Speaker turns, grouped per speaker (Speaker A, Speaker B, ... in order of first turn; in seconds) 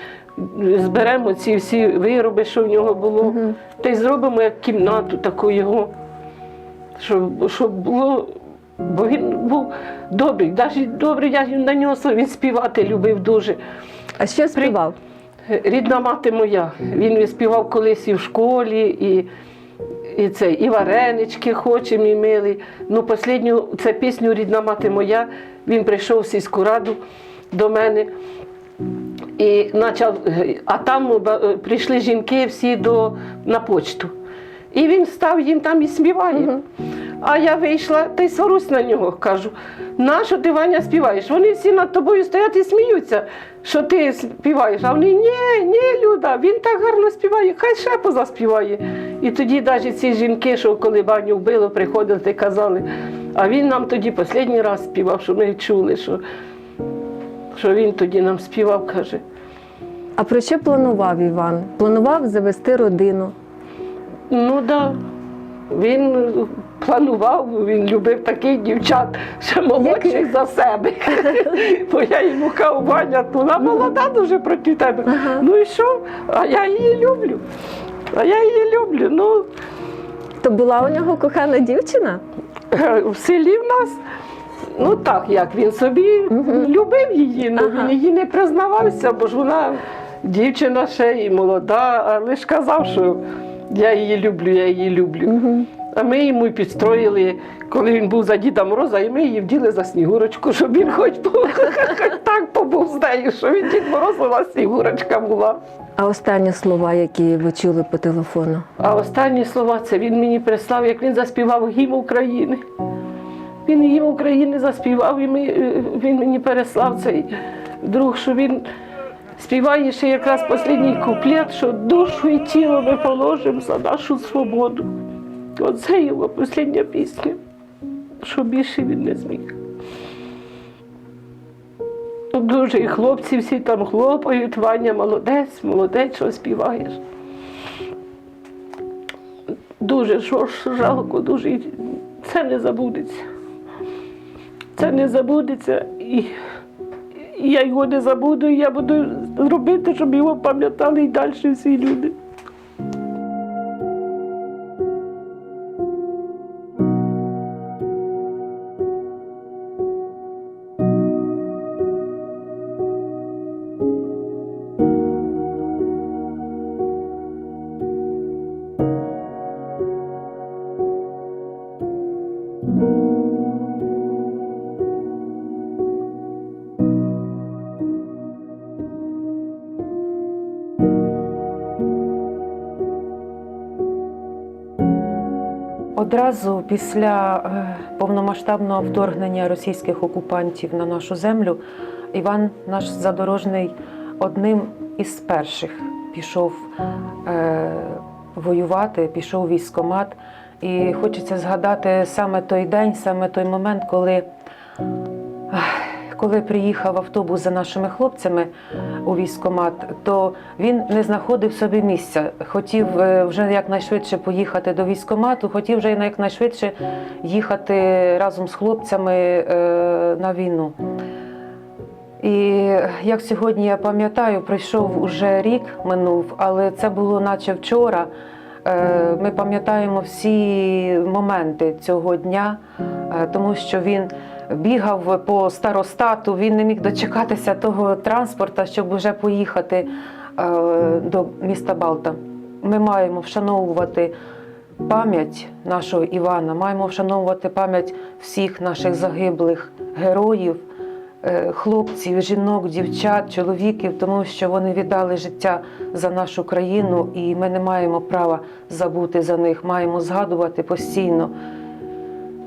Speaker A: 0.4-5.9, 7.0-13.6, 15.5-19.3, 20.1-27.0, 27.5-28.1, 29.4-34.1, 34.7-36.6, 37.2-56.2, 57.5-59.2, 64.3-65.0, 65.7-77.4, 78.1-79.5, 82.7-84.0, 84.7-95.4, 95.9-105.6, 108.8-112.6, 113.7-118.7, 119.4-124.9, 125.6-127.4, 128.2-129.6, 132.3-137.0, 139.8-143.3, 144.8-146.3, 147.2-152.2
Speaker B: 14.2-15.0, 60.2-63.3, 69.8-70.2, 75.1-75.5, 80.4-82.2, 86.3-86.7, 87.6-87.9, 95.3-95.7, 106.0-108.7
Speaker C: 186.0-191.6, 192.1-196.6, 197.2-204.3, 205.5-208.5, 209.1-220.8, 222.2-228.1, 228.7-244.2, 244.8-250.6, 251.2-261.3